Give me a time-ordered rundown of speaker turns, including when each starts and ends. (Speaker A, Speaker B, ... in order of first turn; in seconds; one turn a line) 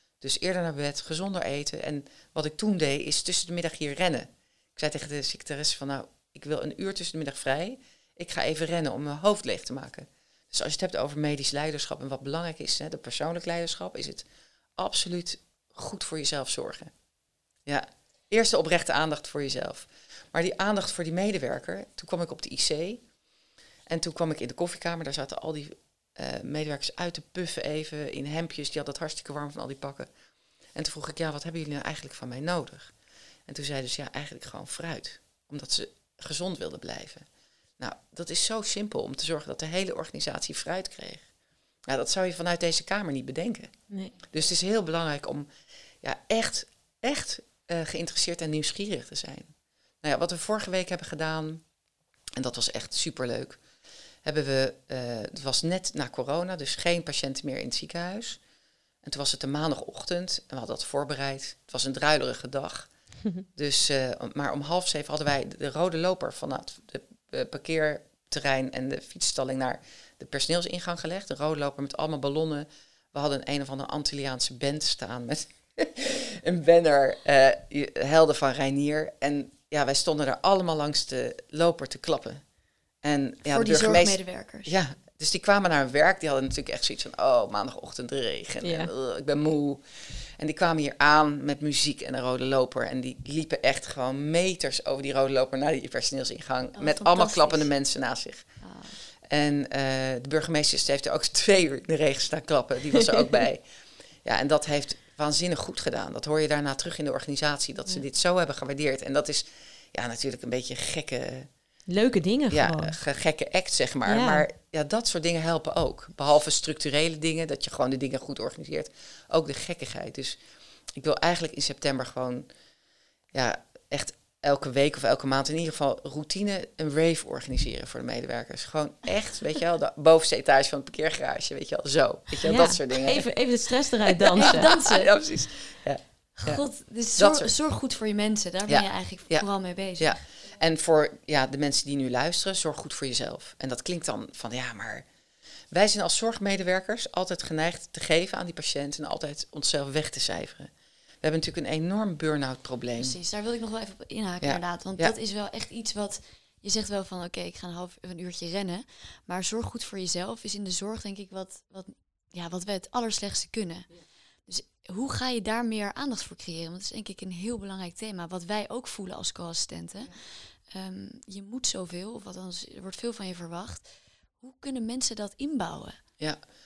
Speaker A: 0.2-14.3
Speaker A: 14.8-16.9
Speaker A: 17.7-23.0
Speaker A: 23.9-30.1
Speaker A: 30.8-32.9
Speaker A: 33.5-37.3
Speaker A: 37.8-41.2
Speaker A: 41.9-43.7
Speaker A: 44.2-45.5
Speaker A: 46.0-51.6
Speaker A: 52.4-53.6
Speaker A: 54.2-58.4
Speaker A: 59.0-62.9
Speaker A: 63.5-82.4
Speaker A: 83.0-98.5
Speaker B: 83.5-84.7
Speaker C: 88.6-88.9
Speaker B: 96.8-97.7
Speaker B: 98.6-99.0
Speaker A: 99.2-103.7
Speaker A: 104.2-111.5
Speaker C: 111.9-113.0
Speaker A: 112.5-120.4
Speaker C: 114.1-114.5
Speaker A: 121.0-122.5
Speaker A: 123.3-133.3
Speaker C: 132.4-134.7
Speaker A: 134.2-136.6
Speaker B: 134.4-135.1
Speaker B: 136.4-140.3
Speaker A: 137.2-137.5
Speaker A: 138.7-145.1
Speaker A: 145.7-150.7
Speaker A: 151.2-153.2
Speaker B: 153.0-163.9
Speaker A: 154.4-155.2
Speaker B: 164.5-173.9
Speaker B: 174.4-176.0